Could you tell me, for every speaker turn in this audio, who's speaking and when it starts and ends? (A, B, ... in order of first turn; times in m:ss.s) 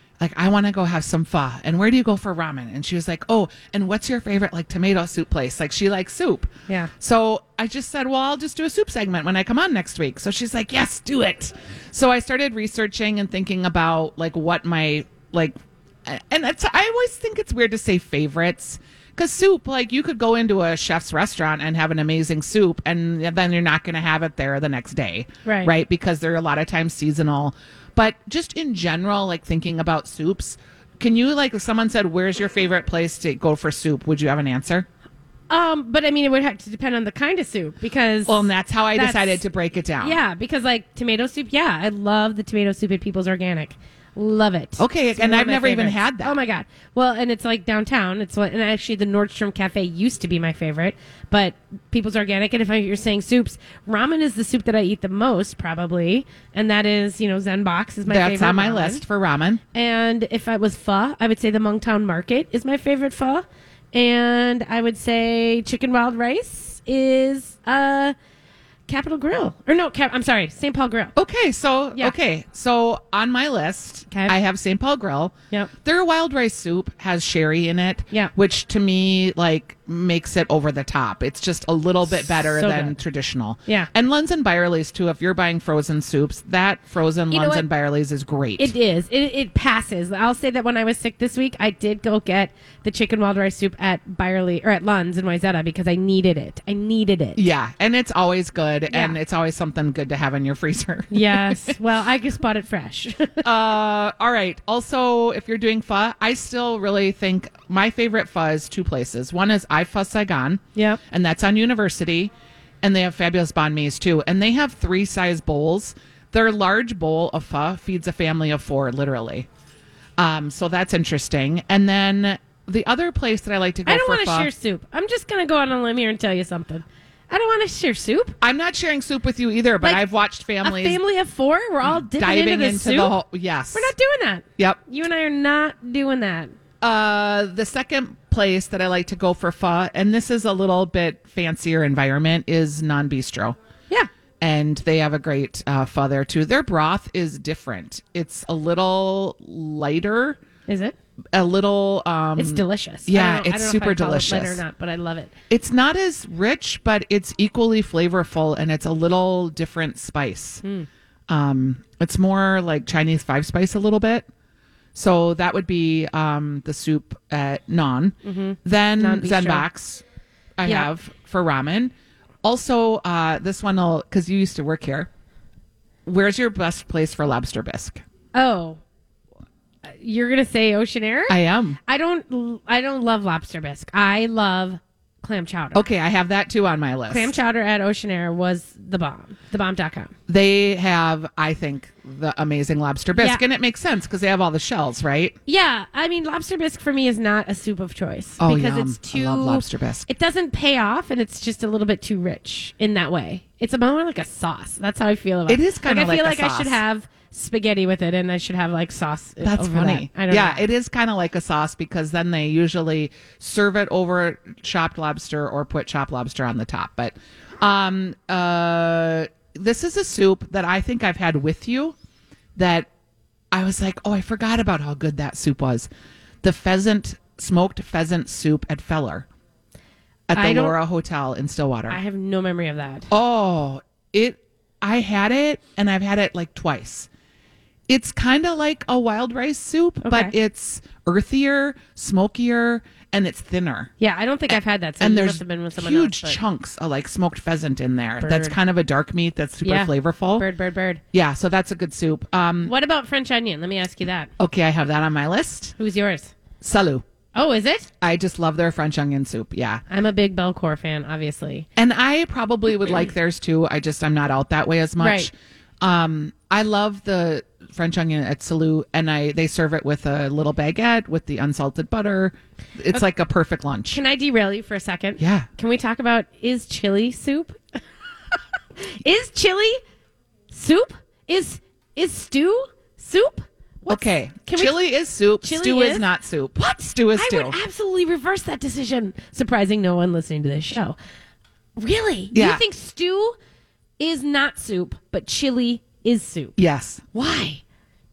0:00.2-0:34.8 A
0:25.4-0:25.7 B
0:35.5-0:39.4 B
0:38.2-0:40.2 A
0:40.0-0:59.0 B
0:44.8-0:46.4 A
0:58.0-0:59.6 A
0:59.7-1:08.1 B
1:08.9-1:11.1 B
1:11.2-1:28.7 A
1:22.4-1:23.0 B
1:27.3-1:27.6 B
1:28.6-1:37.4 B
1:37.4-1:41.7 A
1:38.9-1:39.2 B
1:41.1-1:43.4 B
1:43.4-1:52.3 A
1:52.8-1:59.5 A
2:00.2-2:04.5 A
2:03.8-2:08.4 B
2:08.4-2:11.0 A
2:10.6-2:13.1 B
2:11.8-2:13.9 A
2:13.7-2:16.5 B
2:16.8-2:23.6 A
2:24.4-2:30.4 A
2:30.7-2:30.9 B
2:31.3-2:34.6 A
2:32.4-2:35.3 B
2:35.5-2:40.6 A
2:40.6-2:40.9 B
2:41.3-2:44.3 A
2:44.9-2:50.0 A
2:48.2-2:49.6 B
2:50.6-2:55.1 A
2:56.0-2:58.0 A
2:58.3-2:58.8 B
2:59.9-3:05.8 B
3:01.3-3:01.8 A
3:05.7-3:07.3 A
3:07.1-3:10.1 B
3:10.3-3:15.3 A
3:13.2-3:13.4 B
3:15.5-3:30.7 B
3:18.4-3:20.1 A
3:25.5-3:26.8 A
3:29.4-3:42.0 A
3:42.6-3:42.9 A
3:43.5-3:45.9 A
3:46.4-3:49.2 A
3:50.3-3:52.0 A
3:50.3-3:50.8 B
3:51.9-3:53.1 B
3:53.1-3:57.1 A
3:57.9-4:03.9 A
4:00.0-4:00.3 B
4:04.0-4:06.4 B
4:04.5-4:10.4 A
4:08.2-4:08.6 B
4:09.6-4:11.0 B
4:11.1-4:12.7 A
4:12.6-4:14.3 B
4:14.4-4:15.7 A
4:15.8-4:16.3 B
4:16.6-4:17.0 A
4:17.3-4:17.9 B
4:18.0-4:19.8 A
4:19.9-4:21.7 B
4:21.8-4:34.0 A
4:25.0-4:25.3 B
4:33.9-4:37.6 B
4:35.2-4:35.5 A
4:38.8-4:39.8 B
4:40.5-4:44.8 B
4:43.9-4:47.6 A
4:45.4-4:50.9 B
4:51.8-4:53.3 B
4:52.3-4:52.6 A
4:54.0-4:56.6 B
4:56.6-4:57.0 A
4:57.1-4:57.6 B